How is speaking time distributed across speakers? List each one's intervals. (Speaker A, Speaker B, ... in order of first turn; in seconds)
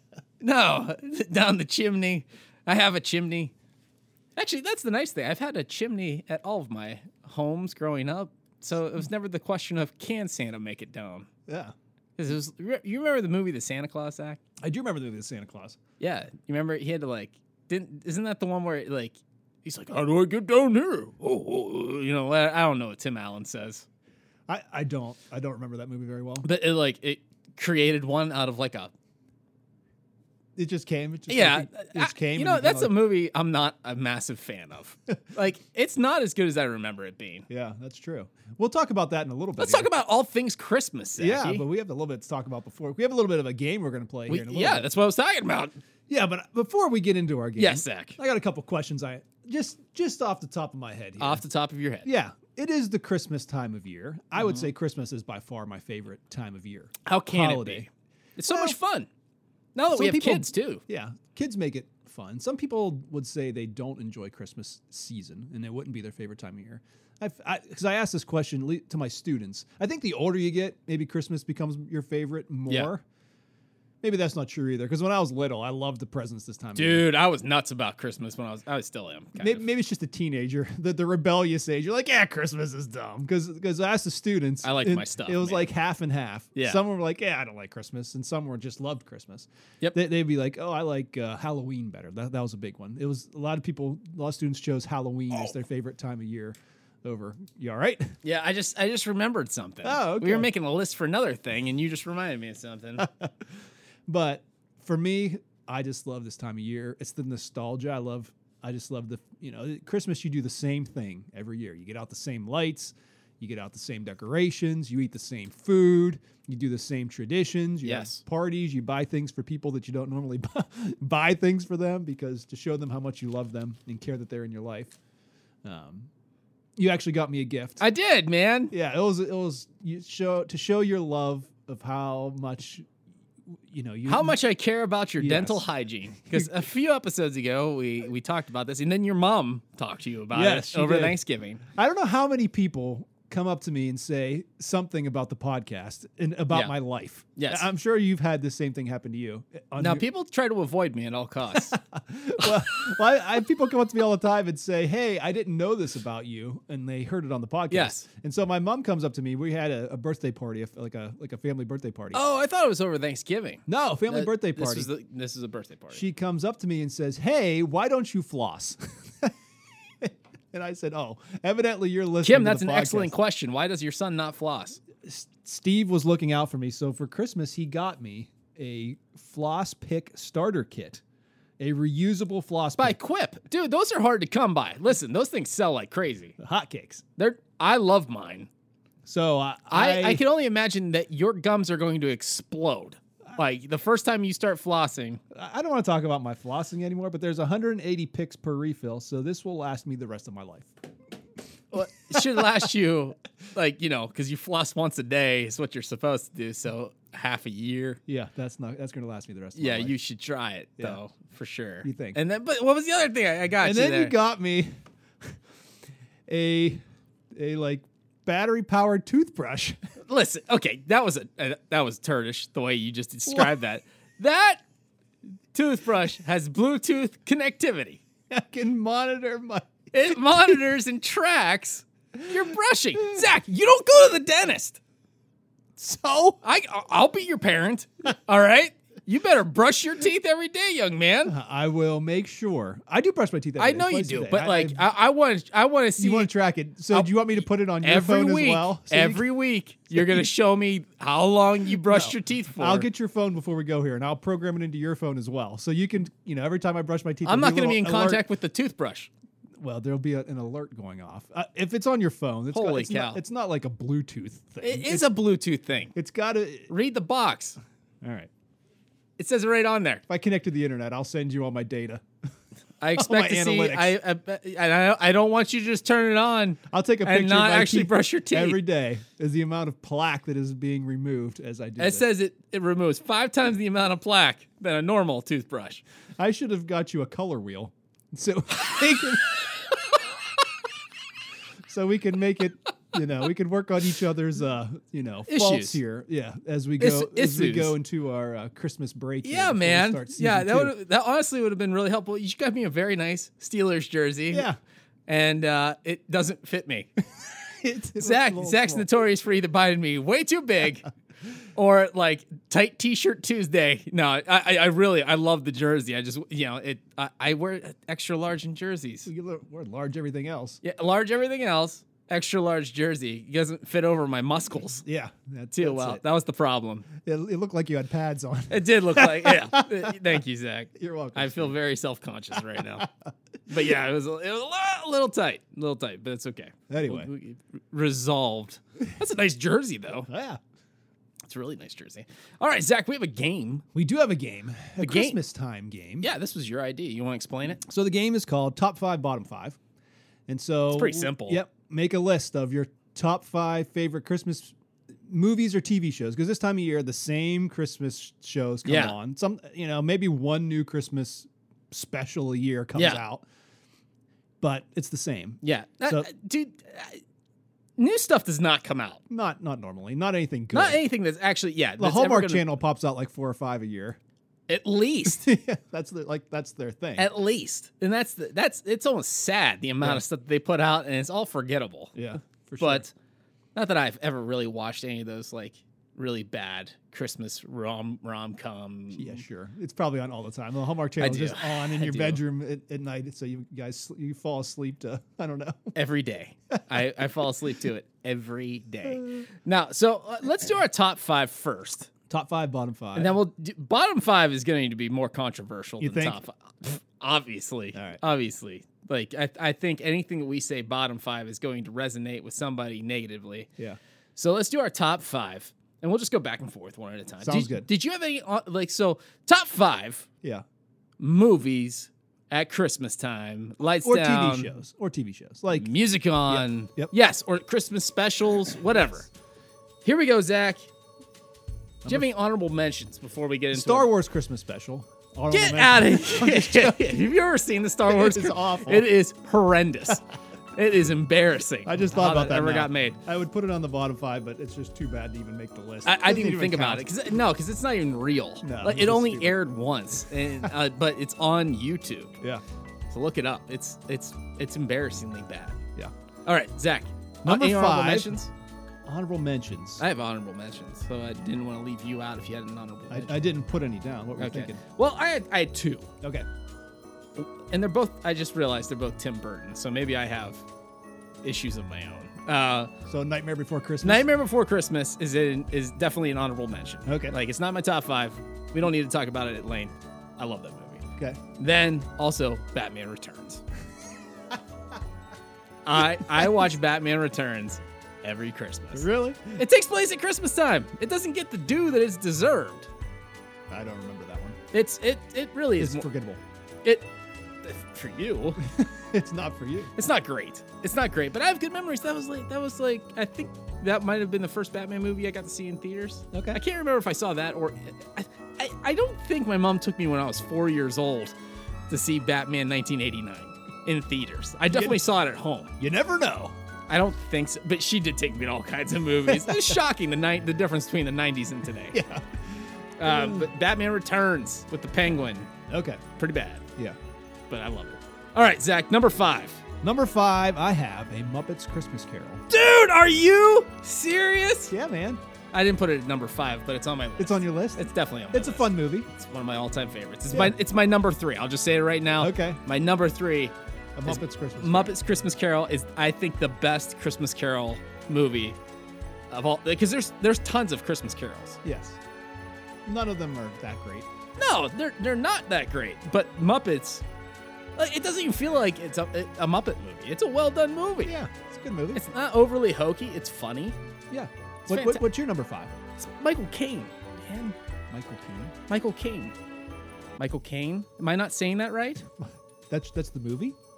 Speaker A: 0.4-3.5, 4.4-11.3, 12.2-14.4, 16.0-23.9, 26.4-28.9, 31.3-37.5, 39.6-41.6, 44.3-45.8, 47.6-48.2, 51.2-52.1, 54.4-54.7, 57.1-59.1, 59.8-60.8, 76.8-79.6, 84.6-85.7, 86.5-86.8, 98.2-103.1, 117.8-118.2, 127.8-128.7, 134.1-141.6, 147.4-147.7, 149.8-151.8, 157.7-158.1, 162.1-166.0, 172.2-174.8, 182.8-186.4, 187.2-188.5, 189.7-195.2, 201.7-208.0, 209.6-214.2, 220.1-224.6, 225.5-228.0, 229.9-234.8, 236.4-241.3, 243.6-246.3, 246.9-252.9, 257.2-259.1, 262.5-263.2, 264.6-265.9, 266.7-267.6, 269.2-270.0, 272.8-278.6, 281.8-285.8, 295.3-295.8, 296.8-297.8, 299.2-304.5, 305.1-306.9, 308.0-310.9, 311.6-319.1, 320.6-324.8, 325.6-326.9, 328.5-332.9, 333.5-340.1, 341.3-343.6, 344.8-345.2, 346.0-347.6, 350.7-351.4, 358.6-358.9, 362.8-363.0, 365.4-367.0, 367.8-369.0, 370.5-372.5, 374.5-375.3, 377.0-382.0, 382.6-382.9, 383.6-389.2, 391.0-392.2, 395.8-401.9, 402.9-413.5, 414.2-420.1, 421.0-424.5, 425.6-429.1, 429.8-430.7, 431.9-433.9, 435.3-440.0, 440.6-443.0, 445.9-452.2, 452.9-455.6, 456.3-458.3, 459.8-463.3, 464.2-465.9, 467.2-470.4, 471.2-472.7, 473.8-480.9, 481.4-483.4, 485.7-492.7, 494.5-495.9, 497.4-498.4, 499.8-511.1, 511.7-515.5, 516.7-521.8, 522.8-525.3, 526.0-526.5, 527.3-529.4, 532.3-534.5, 535.3-548.4, 549.1-551.4, 554.2-556.8, 557.6-561.0, 561.7-563.6, 564.5-564.8, 565.8-567.4, 568.5-569.1, 570.0-571.9
Speaker B: 11.5-11.7, 14.6-15.8, 24.5-26.5, 30.6-33.0, 37.5-39.9, 41.2-44.9, 46.1-51.4, 52.0-57.9, 58.5-58.8, 59.9-73.0, 74.0-77.0, 79.4-98.1, 99.8-100.5, 103.0-103.3, 104.1-125.0, 125.6-126.1, 126.8-127.8, 128.7-132.9, 133.5-134.4, 135.2-135.6, 140.3-141.2, 141.7-150.1, 151.6-162.2, 163.7-164.9, 165.9-169.3, 170.0-173.1, 175.0-181.0, 181.6-183.0, 186.4-187.0, 189.1-190.2, 195.3-200.7, 202.1-202.6, 208.1-210.0, 211.8-212.2, 213.6-215.3, 216.3-216.8, 217.3-219.8, 223.3-223.6, 228.3-230.6, 235.8-236.4, 241.3-244.8, 246.0-249.3, 250.0-250.2, 251.9-258.2, 259.6-265.1, 265.9-266.7, 268.0-268.3, 270.1-272.1, 273.0-273.9, 276.7-282.1, 286.2-289.4, 291.7-300.7, 304.3-304.6, 307.6-308.9, 319.1-320.6, 324.8-326.0, 327.0-330.0, 330.8-331.6, 332.5-333.1, 336.7-337.1, 340.1-340.4, 343.8-346.1, 347.6-349.6, 350.3-354.6, 355.1-363.2, 364.4-366.1, 369.1-370.8, 371.8-374.0, 375.1-377.1, 381.9-382.9, 388.9-395.8, 398.9-399.2, 402.1-403.2, 405.8-406.2, 407.7-408.0, 417.2-417.7, 423.8-425.7, 426.3-426.9, 431.8-432.1, 433.5-436.9, 437.9-438.9, 441.6-446.9, 448.4-449.4, 457.2-458.2, 458.9-459.8, 462.9-464.6, 466.0-466.3, 472.9-474.1, 476.9-477.2, 485.8-486.5, 488.7-489.4, 493.5-494.4, 495.6-496.2, 498.4-499.7, 506.1-506.4, 514.5-514.8, 515.6-516.4, 519.1-519.6, 521.7-522.0, 522.8-523.3, 525.5-525.8, 529.6-532.2, 534.5-535.0, 537.0-538.9, 540.1-540.4, 542.0-542.4, 543.8-544.8, 551.4-551.8, 552.7-553.9, 560.8-561.8, 563.9-565.5, 567.7-568.4, 572.0-573.4